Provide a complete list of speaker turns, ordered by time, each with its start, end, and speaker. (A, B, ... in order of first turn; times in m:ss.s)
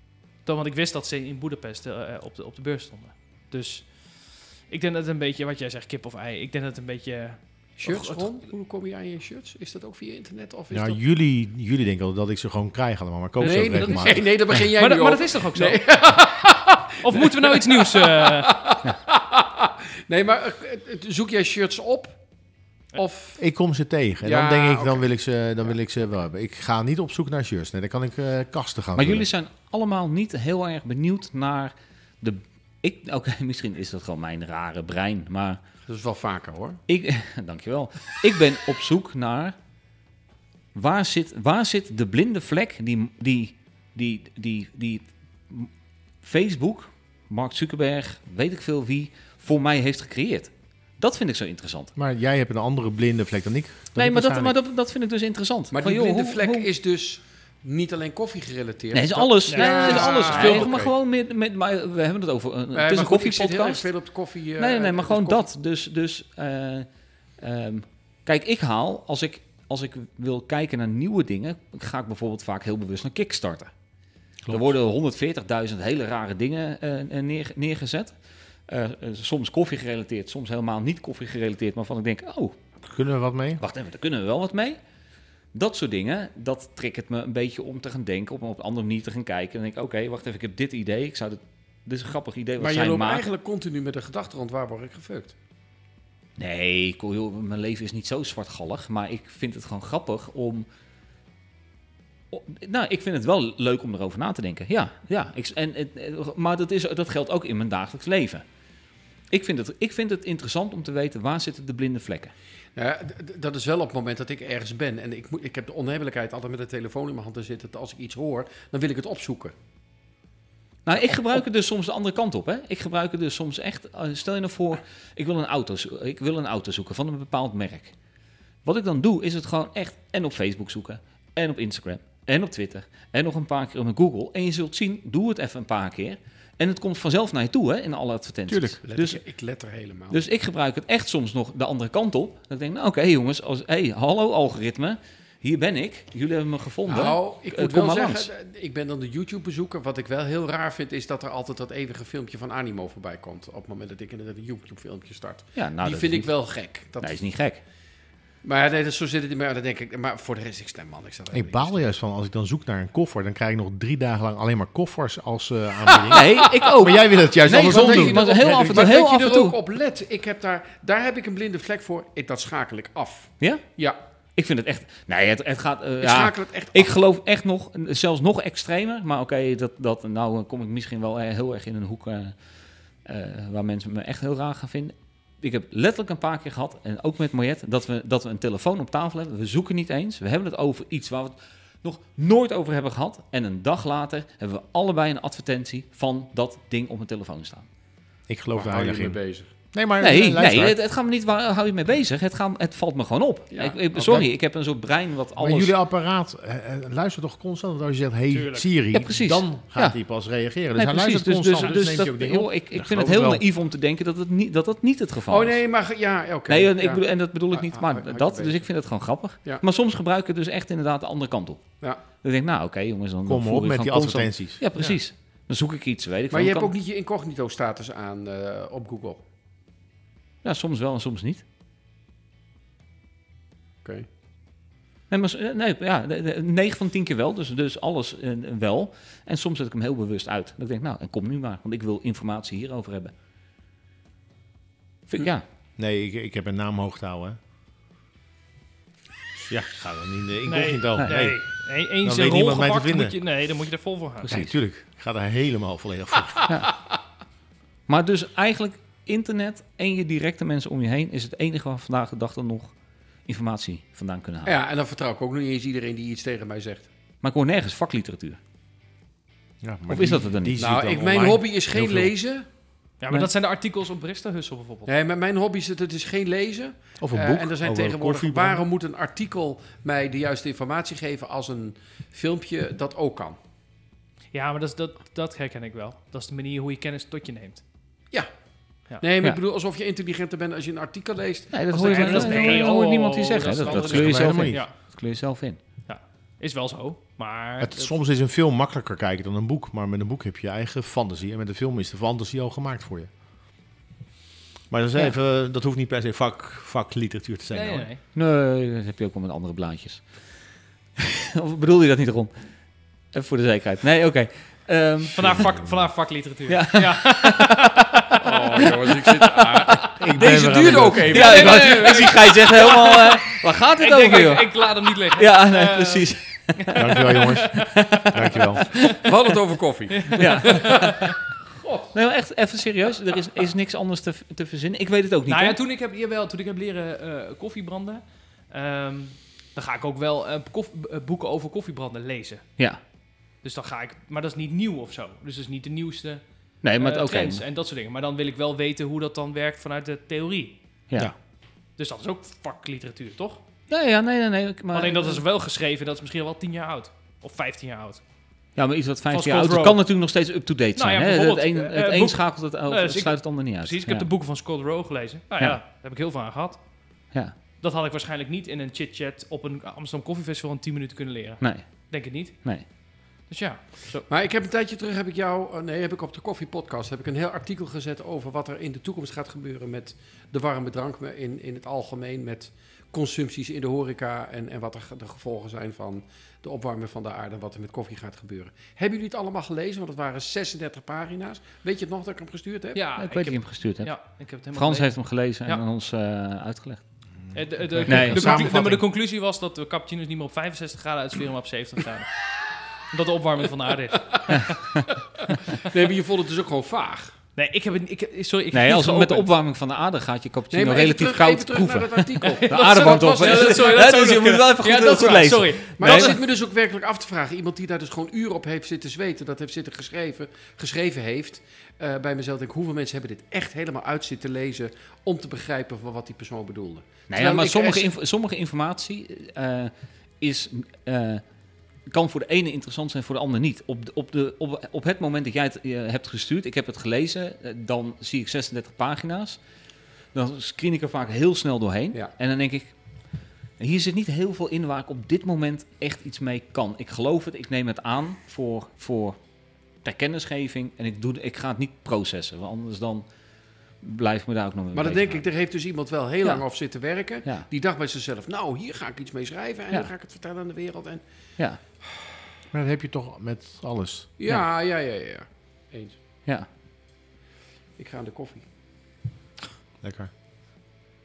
0:00.4-0:08.4 A
0:07.8-0:11.0 B
0:10.7-0:14.3 C
0:13.4-0:16.0 A
0:13.4-0:22.2 B
0:17.0-0:18.5 A
0:23.0-0:23.4 B
0:23.4-0:29.3 C
0:24.2-0:25.1 B
0:29.0-0:35.6 D
0:35.9-0:36.8 B
0:36.9-0:39.6 D
0:40.8-0:45.7 D
0:46.2-0:51.9 D
0:52.0-0:54.6 C
0:54.0-0:56.7 D
0:55.7-1:00.9 B
0:58.9-1:03.9 D
0:59.5-1:00.7 A
1:02.7-1:05.5 B
1:04.6-1:06.9 D
1:07.4-1:13.7 D
1:14.4-1:14.7 C
1:14.5-1:18.2 D
1:18.7-1:22.6 D
1:22.8-1:23.6 C
1:23.6-1:24.8 D
1:25.5-1:33.3 D
1:32.6-1:35.4 B
1:36.4-1:40.7 D
1:42.3-1:48.4 D
1:49.3-1:52.3 D
1:52.8-1:59.5 B
2:00.9-2:08.0 D
2:08.6-2:19.2 D
2:18.5-2:18.8 C
2:18.8-2:20.2 B
2:20.1-2:28.3 D
2:26.9-2:37.2 B
2:35.6-2:36.3 D
2:37.0-2:37.6 D
2:38.4-2:41.8 B
2:41.3-2:48.6 C
2:46.0-2:46.4 B
2:46.1-2:49.6 D
2:47.5-2:54.0 B
2:54.4-3:02.4 D
2:56.0-2:57.0 B
3:03.0-3:17.7 D
3:18.3-3:19.2 C
3:18.5-3:19.5 B
3:19.7-3:20.8 C
3:20.0-3:25.8 D
3:23.5-3:24.3 B
3:25.4-3:33.4 C
3:28.3-3:28.7 A
3:28.9-3:30.0 D
3:30.8-3:35.6 D
3:35.3-3:38.7 B
3:36.5-3:41.6 D
3:42.2-3:46.7 D
3:43.3-3:44.6 C
3:46.3-3:49.2 B
3:50.4-3:51.4 D
3:55.1-4:03.1 D
4:05.1-4:05.4 D
4:05.8-4:07.4 C
4:09.5-4:11.4 C
4:10.4-4:14.3 A
4:12.0-4:13.2 C
4:14.2-4:16.5 C
4:14.3-4:14.6 D
4:17.9-4:22.7 D
4:23.3-4:24.6 D
4:24.4-4:26.9 B
4:27.2-4:28.4 D
4:29.6-4:32.1 C
4:29.9-4:30.6 D
4:30.6-4:32.5 B
4:33.0-4:34.9 A
4:34.9-4:43.4 B
4:37.0-4:38.6 C
4:44.3-4:47.6 A
4:49.0-4:52.8 B
4:51.5-4:55.6 D
4:51.7-4:54.7 A
4:53.6-4:54.7 C
4:55.9-4:58.0 A
4:57.6-5:03.1 C
5:04.7-5:07.9 C
5:07.5-5:08.0 A
5:08.1-5:10.1 D
5:11.0-5:12.3 D
5:13.1-5:15.5 D
5:15.1-5:18.0 A
5:15.2-5:15.8 C
5:16.5-5:17.8 D
5:18.2-5:22.3 B
5:18.6-5:26.8 D
5:20.0-5:21.3 C
5:21.2-5:29.0 A
5:26.8-5:28.7 C
5:27.6-5:28.2 D
5:29.0-5:30.9 B
5:29.9-5:31.2 A
5:30.2-5:31.2 D
5:31.6-5:31.9 B
5:31.9-5:35.6 D
5:35.3-5:42.5 A
5:43.4-5:46.2 A
5:46.6-5:47.4 D
5:46.8-5:50.6 A
5:51.8-5:53.4 A
5:53.7-5:55.2 D
5:54.7-5:58.0 A
5:58.6-6:04.1 D
5:59.1-5:59.8 A
6:00.8-6:06.6 A
6:07.6-6:12.5 A
6:11.4-6:11.7 D
6:13.3-6:14.1 A
6:14.1-6:32.8 B
6:32.7-6:35.6 A
6:33.0-6:34.0 D
6:34.5-6:36.8 D
6:37.3-6:38.8 C
6:37.3-6:42.1 A
6:37.9-6:38.5 D
6:42.9-6:44.6 A
6:44.4-6:45.4 D
6:45.5-6:47.1 B
6:47.4-6:49.3 A
6:48.5-6:56.2 D
6:50.5-6:53.9 B
6:52.2-6:56.2 A
6:55.8-7:07.9 B
7:07.1-7:11.2 D
7:11.9-7:19.4 D
7:20.1-7:22.7 D
7:23.6-7:29.2 D
7:29.8-7:33.1 D
7:33.8-7:35.2 D
7:34.7-7:41.0 B
7:42.5-7:44.1 C
7:44.2-7:46.0 B
7:47.8-7:48.4 B
7:49.8-7:50.1 C